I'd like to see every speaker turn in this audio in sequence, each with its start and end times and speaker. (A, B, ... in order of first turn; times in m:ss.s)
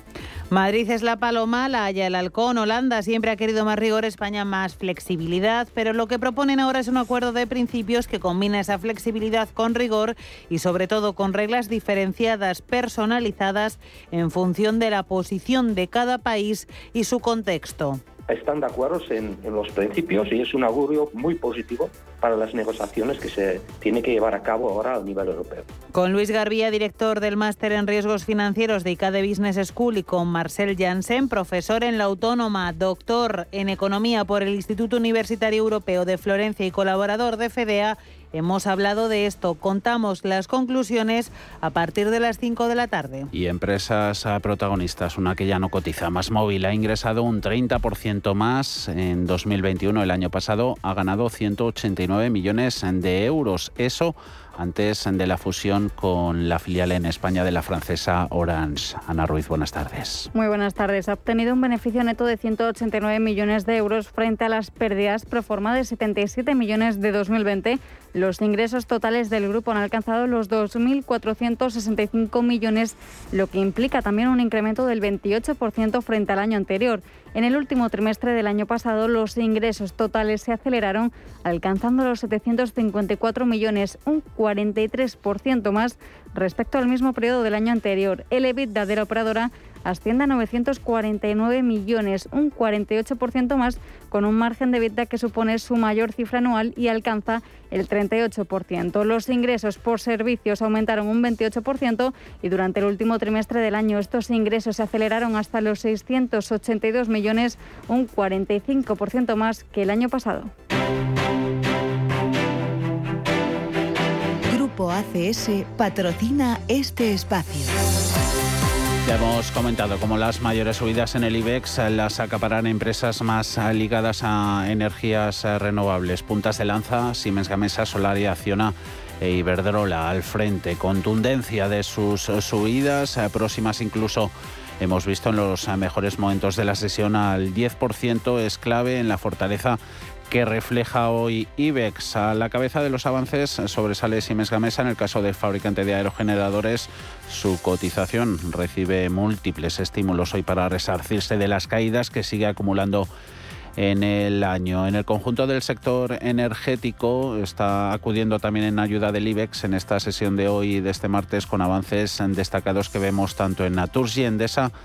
0:00.5-0:18.0 A
0:18.3-0:25.6 B
0:25.9-0:43.3 A
0:43.3-1:00.3 C
1:00.3-1:50.5 D
1:54.5-1:57.8 E
1:59.0-2:19.8 C
2:20.3-2:33.1 C
2:33.8-2:44.7 C